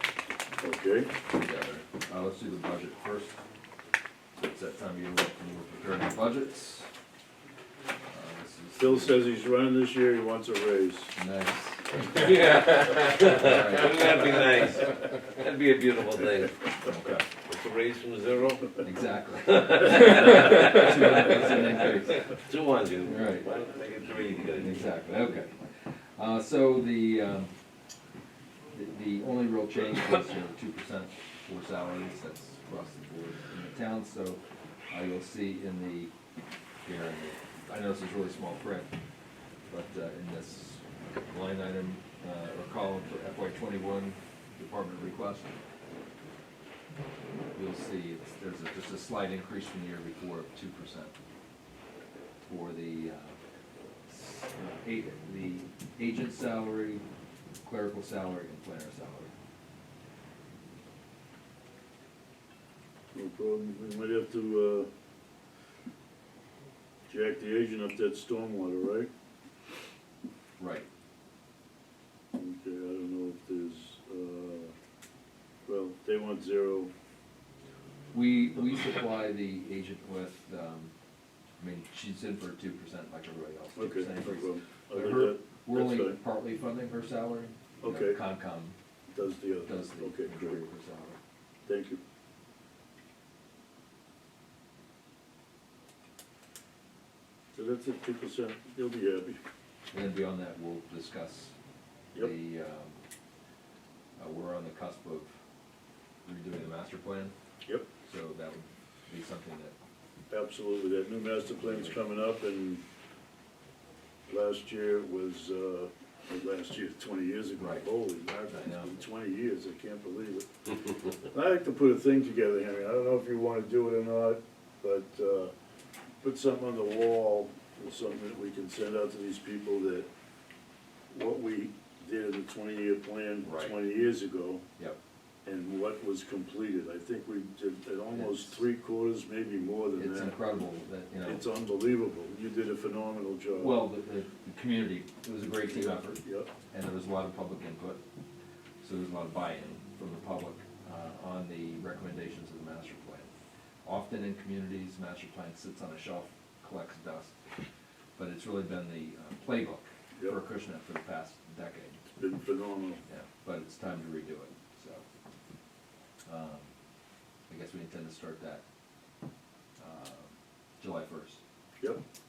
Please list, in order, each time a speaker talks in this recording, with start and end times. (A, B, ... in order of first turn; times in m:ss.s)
0:00.6-0:01.1 A
0:01.3-0:03.4 B
0:04.4-0:06.9 B
0:08.1-0:09.2 B
0:08.8-0:11.1 A
0:11.2-0:14.1 B
0:12.1-0:16.8 C
0:16.8-0:17.3 B
0:17.4-0:18.8 C
0:18.8-0:22.4 B
0:19.4-0:24.9 C
0:23.0-0:23.5 B
0:24.5-0:27.5 B
0:28.7-0:36.1 B
0:36.8-0:38.9 B
0:39.7-0:45.6 B
0:47.5-0:51.1 B
0:52.5-0:53.4 B
0:54.1-0:57.0 B
0:57.6-0:59.3 B
1:03.1-1:04.9 A
1:07.1-1:09.1 A
1:10.6-1:10.9 B
1:12.3-1:14.7 A
1:15.7-1:16.9 A
1:18.1-1:20.9 B
1:21.6-1:28.8 B
1:23.8-1:26.2 A
1:27.8-1:28.2 A
1:29.1-1:30.6 A
1:29.6-1:31.2 B
1:31.7-1:32.0 A
1:37.5-1:39.4 A
1:39.9-1:41.6 B
1:42.1-1:43.0 B
1:44.2-1:45.3 B
1:46.2-1:47.3 B
1:48.0-1:49.8 B
1:50.3-1:52.8 A
1:54.3-2:00.5 A
1:57.6-1:59.0 B
2:01.3-2:05.5 A
2:06.2-2:10.1 A
2:11.1-2:14.6 A
2:13.4-2:13.8 B
2:15.4-2:20.4 A
2:18.1-2:18.6 B
2:20.0-2:21.4 B
2:21.2-2:23.8 A
2:23.6-2:28.0 B
2:25.7-2:26.5 A
2:28.8-2:33.3 B
2:33.8-2:37.3 B
2:38.2-2:42.0 B
2:42.2-2:43.0 A
2:43.1-2:45.0 B
2:46.3-2:46.7 B
2:47.5-2:48.6 B
2:49.8-2:51.4 B